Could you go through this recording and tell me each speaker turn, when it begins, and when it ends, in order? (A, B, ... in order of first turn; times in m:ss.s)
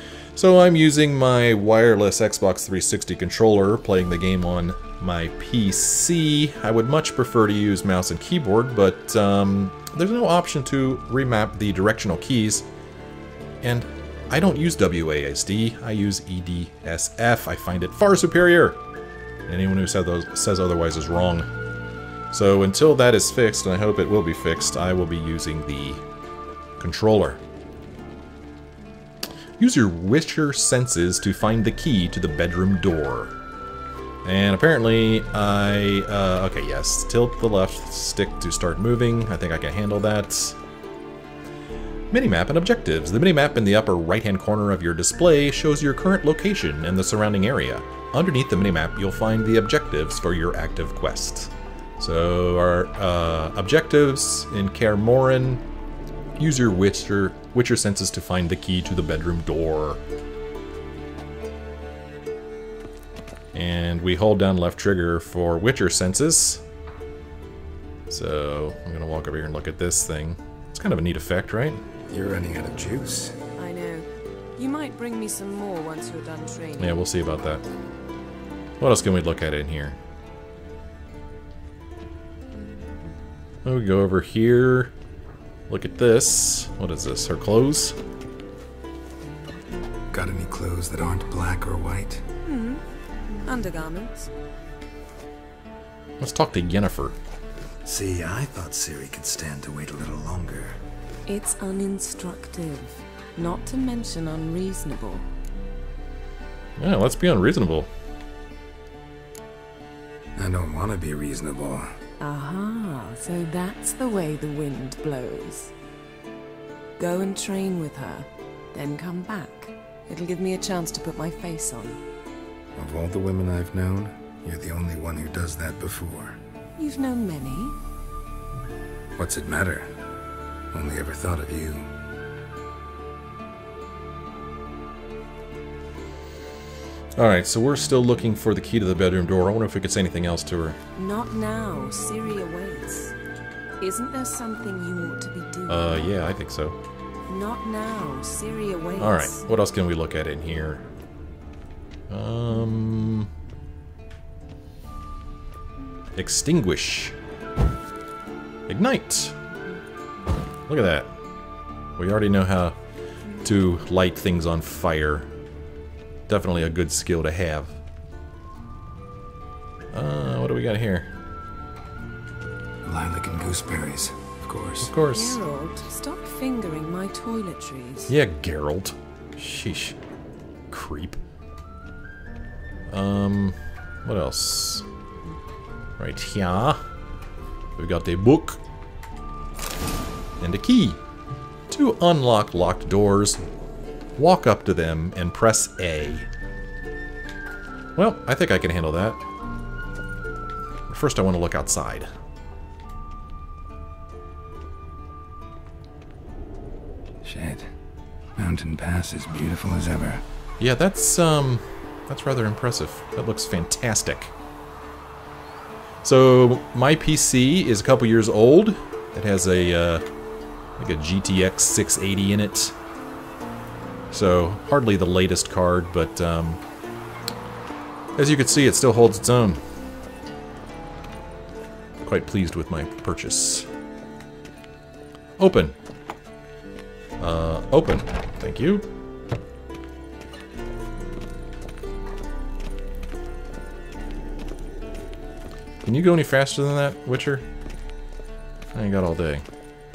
0:00.3-0:12.7 A
0:13.6-0:18.8 A
0:19.5-0:21.5 A
0:22.3-0:26.0 A
0:26.8-0:27.4 A
0:29.6-0:33.3 A
0:34.2-0:40.6 A
0:42.1-0:55.6 A
0:56.4-1:00.0 A
1:03.5-1:06.6 A
1:08.1-1:11.8 A
1:12.1-1:13.4 B
1:13.6-1:14.0 C
1:14.6-1:17.0 C
1:16.8-1:17.6 A
1:18.8-1:20.0 A
1:23.6-1:24.9 A
1:25.7-1:28.0 A
1:30.1-1:32.2 B
1:32.4-1:32.8 C
1:33.4-1:34.3 C
1:36.2-1:37.1 A
1:37.8-1:40.8 B
1:41.3-1:45.2 C
1:46.8-1:47.9 A
1:50.4-1:52.0 B
1:52.2-1:55.7 C
1:57.0-2:02.0 C
2:02.8-2:06.4 B
2:06.8-2:07.8 C
2:09.2-2:09.9 B
2:10.7-2:11.9 B
2:17.2-2:20.8 A
2:20.9-2:23.1 C
2:23.8-2:26.1 C
2:25.7-2:26.8 A
2:27.3-2:29.4 C
2:29.0-2:30.8 A
2:32.1-2:33.3 A
2:36.2-2:37.2 A
2:38.7-2:39.4 A
2:40.6-2:41.1 A
2:42.0-2:42.8 A
2:43.4-2:45.3 A
2:46.3-2:47.8 A
2:49.9-2:51.1 A
2:52.8-2:54.9 B
2:54.8-2:55.4 A
2:55.0-2:58.1 C
2:58.1-3:00.0 A
3:00.7-3:01.2 A
3:02.9-3:04.8 A
3:06.0-3:06.8 A
3:07.8-3:08.6 A
3:10.4-3:11.0 A
3:11.7-3:13.4 A
3:14.2-3:16.3 A
3:18.0-3:19.2 A
3:20.9-3:22.1 A
3:27.2-3:27.7 B
3:28.4-3:30.2 B
3:30.6-3:34.3 A
3:36.0-3:40.0 A
3:40.8-3:42.7 A
3:44.1-3:46.6 A
3:48.2-3:49.6 A
3:52.0-3:53.7 A
3:55.4-3:55.8 A
3:57.2-3:58.9 A
4:05.8-4:07.4 A
4:08.7-4:09.4 A